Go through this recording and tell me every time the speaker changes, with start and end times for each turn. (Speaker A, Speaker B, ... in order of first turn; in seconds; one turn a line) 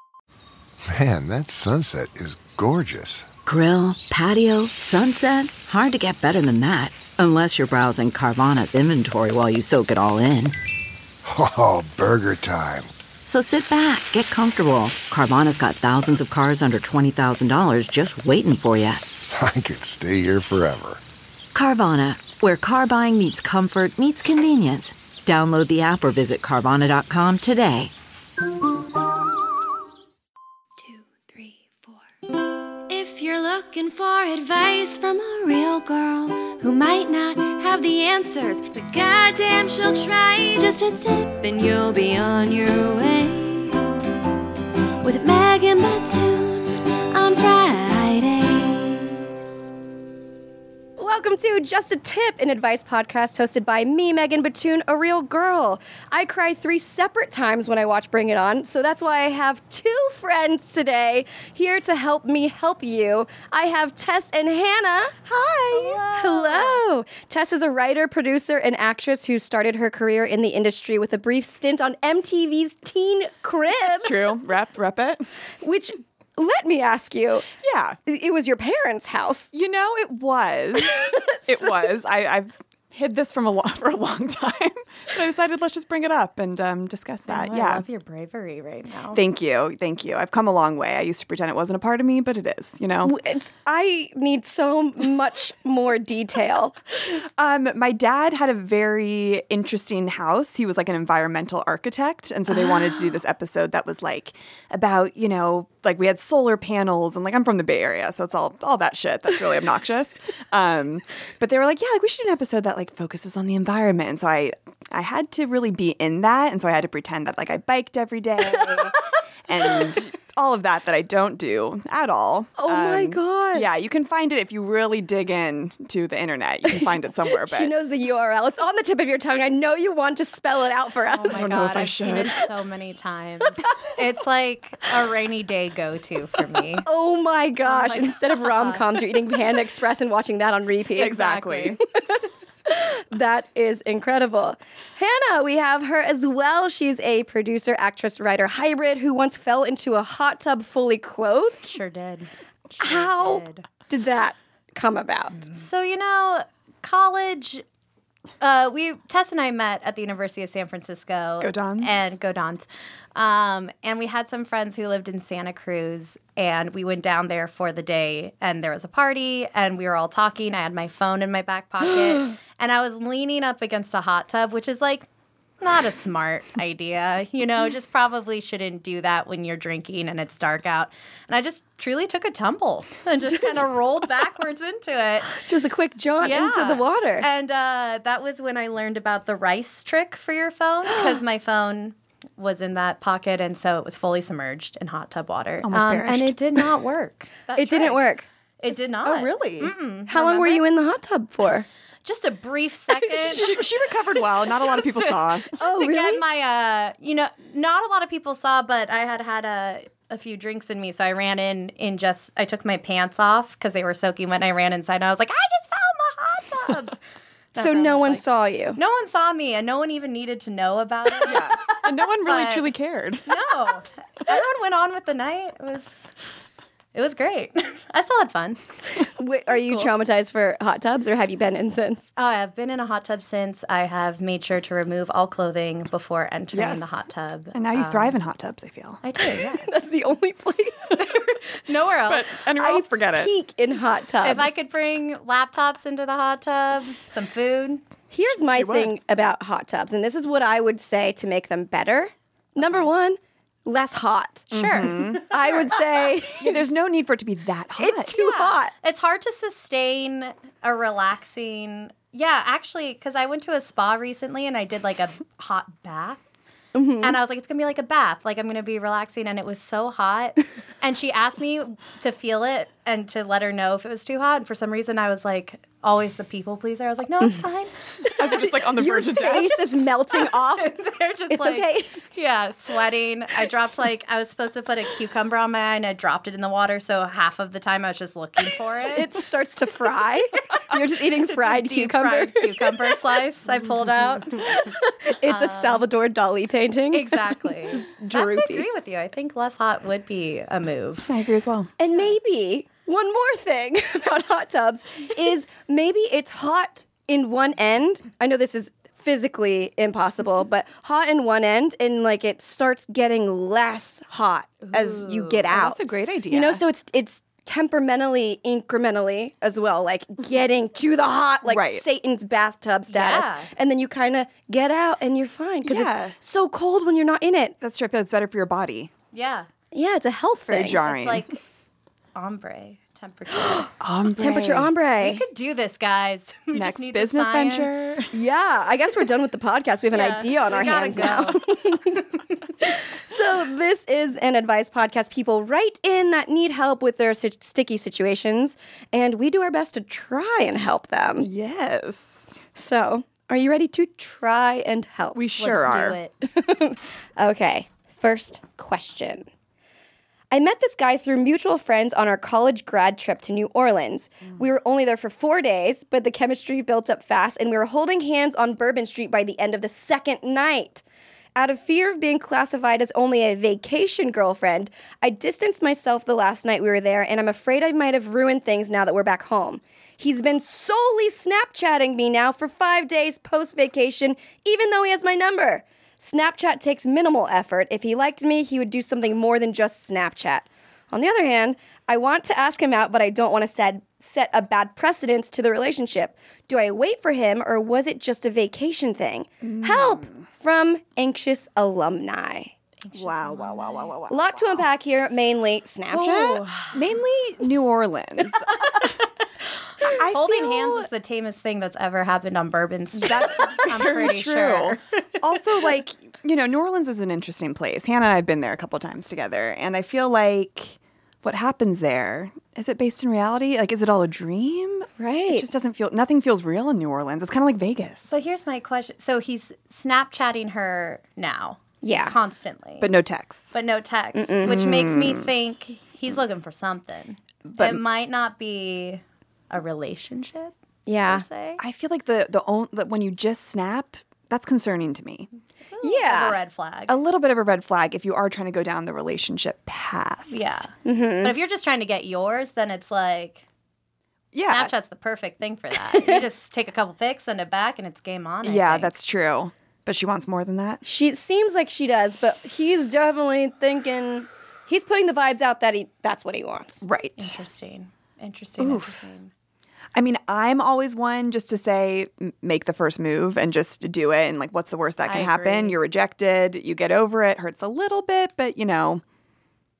Speaker A: 0.9-3.2
Speaker B: 3.5-10.6
Speaker A: 11.3-12.9
Speaker B: 13.2-19.0
Speaker A: 19.3-21.0
Speaker B: 21.5-27.9
Speaker C: 30.8-32.0
Speaker C: 32.9-43.9
Speaker C: 45.0-49.3
Speaker D: 51.0-65.1
Speaker E: 65.2-66.0
Speaker F: 65.7-66.8
Speaker D: 66.1-74.3
Speaker E: 73.9-75.2
Speaker D: 75.6-77.5
Speaker E: 77.6-78.0
Speaker D: 78.0-79.5
Speaker E: 79.5-87.8
Speaker D: 80.9-81.7
Speaker F: 87.3-89.2
Speaker E: 89.1-93.1
Speaker D: 93.0-96.8
Speaker E: 97.1-127.7
Speaker D: 122.6-123.7
Speaker D: 126.7-131.4
Speaker F: 131.1-136.9
Speaker E: 131.2-132.5
Speaker D: 136.8-141.2
Speaker F: 137.7-138.9
Speaker F: 140.9-141.8
Speaker E: 141.0-141.8
Speaker D: 142.2-151.7
Speaker F: 151.7-153.7
Speaker D: 152.8-155.5
Speaker F: 155.3-157.6
Speaker F: 158.4-175.1
Speaker E: 161.4-162.0
Speaker F: 175.6-185.4
Speaker D: 185.3-187.2
Speaker F: 186.2-198.0
Speaker E: 195.6-196.6
Speaker D: 197.6-198.3
Speaker F: 198.6-200.7
Speaker E: 199.0-199.7
Speaker D: 200.1-201.7
Speaker F: 202.0-203.5
Speaker E: 203.1-205.5
Speaker F: 204.7-217.0
Speaker D: 205.6-206.2
Speaker F: 217.5-218.2
Speaker D: 217.6-218.8
Speaker F: 218.8-222.7
Speaker E: 221.2-223.3
Speaker F: 223.2-226.1
Speaker F: 226.9-228.6
Speaker D: 229.2-232.1
Speaker F: 232.2-238.2
Speaker E: 236.5-239.0
Speaker F: 239.0-239.7
Speaker D: 239.4-241.1
Speaker F: 240.9-242.4
Speaker E: 242.1-243.3
Speaker D: 242.5-244.5
Speaker F: 244.2-247.8
Speaker D: 248.1-254.5
Speaker E: 248.5-248.9
Speaker E: 254.5-255.3
Speaker F: 254.5-255.6
Speaker D: 255.1-256.6
Speaker E: 256.4-258.2
Speaker D: 257.8-258.7
Speaker F: 258.1-266.2
Speaker D: 266.8-267.2
Speaker F: 267.0-277.7
Speaker D: 278.1-280.8
Speaker E: 278.1-279.5
Speaker F: 280.2-289.1
Speaker D: 281.3-282.0
Speaker D: 288.9-293.0
Speaker F: 291.3-294.7
Speaker D: 294.4-298.7
Speaker F: 295.2-295.9
Speaker F: 296.9-301.1
Speaker E: 301.1-301.7
Speaker D: 301.8-315.8
Speaker F: 314.6-315.5
Speaker E: 315.5-316.6
Speaker D: 316.3-327.6
Speaker E: 321.4-321.9
Speaker F: 322.9-323.5
Speaker E: 325.6-326.2
Speaker E: 327.6-328.9
Speaker F: 329.1-329.5
Speaker D: 329.7-330.8
Speaker E: 330.5-331.3
Speaker F: 330.8-331.4
Speaker F: 332.1-333.7
Speaker D: 333.4-335.2
Speaker E: 333.8-334.7
Speaker F: 335.0-338.0
Speaker E: 336.5-338.1
Speaker D: 338.1-342.1
Speaker F: 339.9-341.5
Speaker D: 342.6-351.3
Speaker E: 351.2-352.4
Speaker D: 352.6-355.2
Speaker E: 355.1-356.0
Speaker F: 355.4-356.1
Speaker D: 356.3-359.2
Speaker D: 360.3-370.8
Speaker D: 371.4-402.5
Speaker E: 399.4-400.2
Speaker F: 402.8-403.9
Speaker E: 402.9-404.7
Speaker D: 404.1-406.4
Speaker F: 405.9-406.8
Speaker E: 405.9-408.9
Speaker E: 409.8-410.9
Speaker F: 410.1-415.4
Speaker E: 412.9-428.1
Speaker D: 425.0-425.5
Speaker F: 428.1-432.9
Speaker D: 431.8-432.1
Speaker E: 432.8-433.5
Speaker F: 433.5-440.5
Speaker D: 434.1-434.6
Speaker E: 434.4-435.3
Speaker E: 437.4-437.8
Speaker D: 440.9-441.2
Speaker F: 441.1-441.6
Speaker E: 441.6-445.3
Speaker F: 445.6-446.9
Speaker D: 445.8-446.4
Speaker E: 446.9-450.4
Speaker F: 450.3-453.4
Speaker D: 450.9-451.4
Speaker E: 454.3-454.7
Speaker F: 454.5-458.9
Speaker D: 455.9-456.2
Speaker E: 458.4-460.8
Speaker D: 460.8-466.9
Speaker E: 466.8-467.4
Speaker F: 467.2-469.3
Speaker E: 468.6-469.1
Speaker E: 469.9-479.0
Speaker F: 475.1-475.8